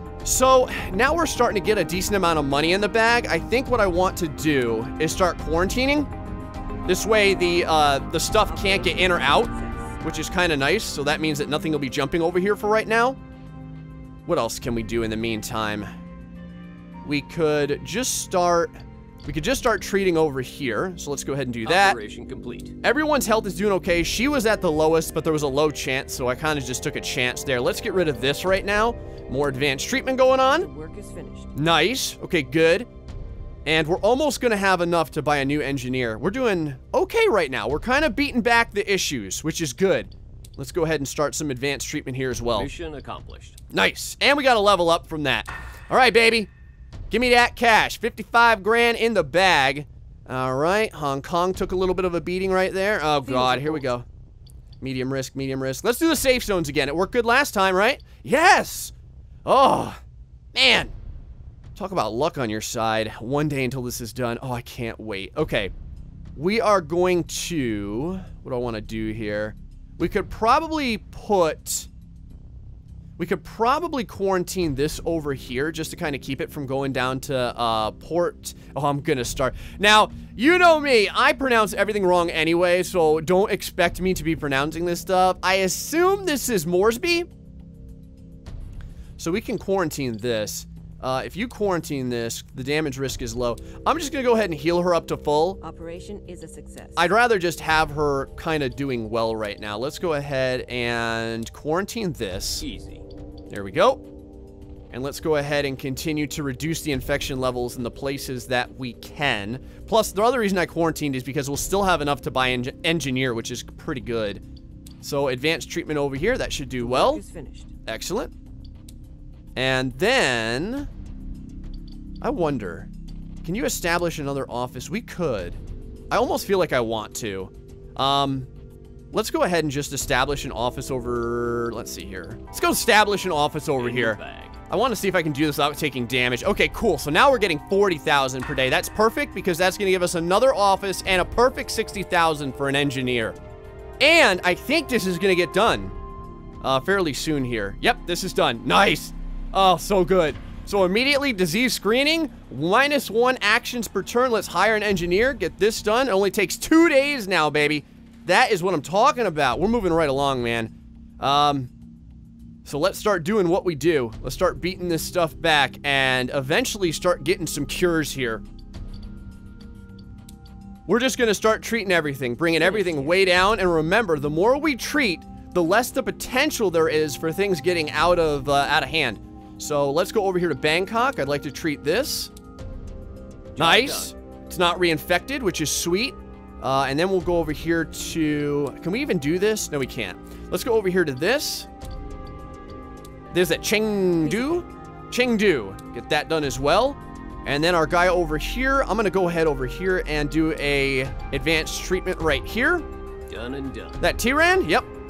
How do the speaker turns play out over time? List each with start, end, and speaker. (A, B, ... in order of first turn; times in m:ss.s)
0:00.2-0:06.1 A
0:06.8-0:09.5 A
0:08.5-0:10.0 B
0:10.0-0:13.2 A
0:14.2-0:15.9 A
0:17.0-0:18.7 A
0:19.2-0:22.0 A
0:21.6-0:22.8 C
0:22.8-0:30.7 A
0:30.5-0:31.5 B
0:31.5-0:32.9 A
0:33.6-0:42.7 A
0:42.5-0:43.6 C
0:43.7-0:46.5 A
0:47.1-0:54.0 A
0:53.2-0:53.9 B
0:54.8-0:58.9 A
0:59.4-1:00.0 A
1:00.5-1:00.9 A
1:01.8-1:05.7 A
1:06.4-1:11.9 A
1:13.2-1:27.3 A
1:29.2-1:35.6 A
1:35.6-1:37.1 B
1:37.0-1:42.6 A
1:42.6-1:43.0 C
1:43.5-1:44.1 A
1:44.9-1:54.4 A
1:55.0-1:57.2 A
1:56.8-1:57.7 B
1:57.8-1:58.3 A
1:59.6-2:00.9 A
2:02.2-2:02.9 A
2:03.4-2:05.6 A
2:06.1-2:08.5 A
2:09.1-2:23.4 A
2:13.8-2:14.6 C
2:24.0-2:25.9 A
2:26.6-2:41.7 A
2:42.6-2:48.4 A
2:50.9-3:02.3 A
2:52.6-2:53.2 B
3:03.6-3:04.1 C
3:03.6-3:11.7 A
3:13.3-3:22.8 A
3:14.2-3:14.6 B
3:23.3-3:24.0 C
3:24.0-3:24.9 A